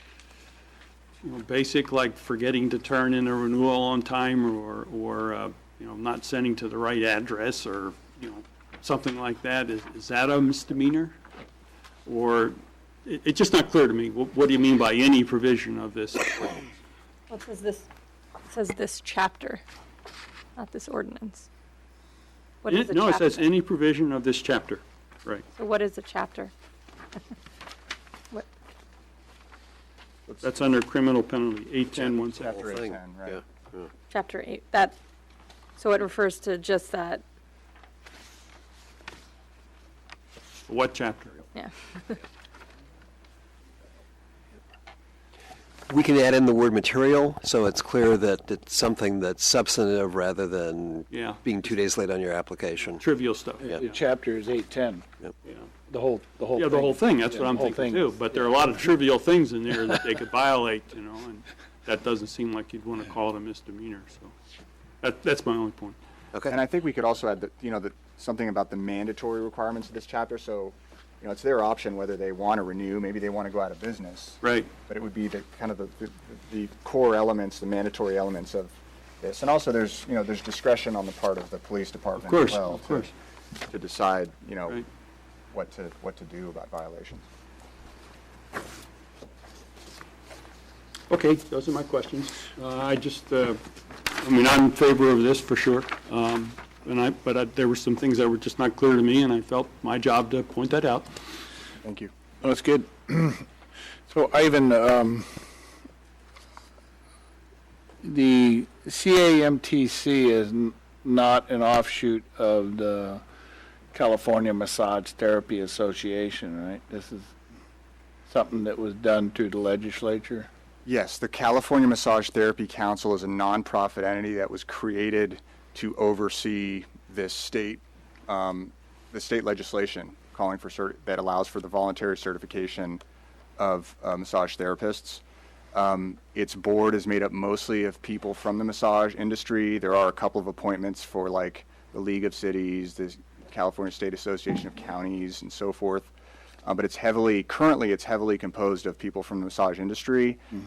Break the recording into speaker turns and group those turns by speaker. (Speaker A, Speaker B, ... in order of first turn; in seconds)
Speaker A: 1.2-11.2, 12.1-16.7, 22.7-25.4, 30.4-32.6, 40.7-41.5, 51.1-51.7, 53.0-53.7, 55.5-55.7, 56.6-64.3, 65.0-66.0, 74.4-74.7, 82.2-83.1, 91.1-101.1
Speaker B: 17.3-17.9, 18.5-19.6, 20.6-21.5, 22.6-23.4, 25.6-26.5, 34.1-35.0, 35.8-37.2, 41.5-42.1
Speaker C: 32.0-33.9, 45.9-53.0
Speaker D: 32.3-33.4, 66.5-83.1, 83.7-84.8, 85.5-87.3, 101.8-102.1, 120.9-133.0, 133.6-135.2, 135.7-146.1, 146.7-150.4
Speaker E: 53.6-55.0, 55.9-58.1, 102.4-103.5, 104.1-105.4, 108.0-113.2, 113.9-117.3, 118.3-120.5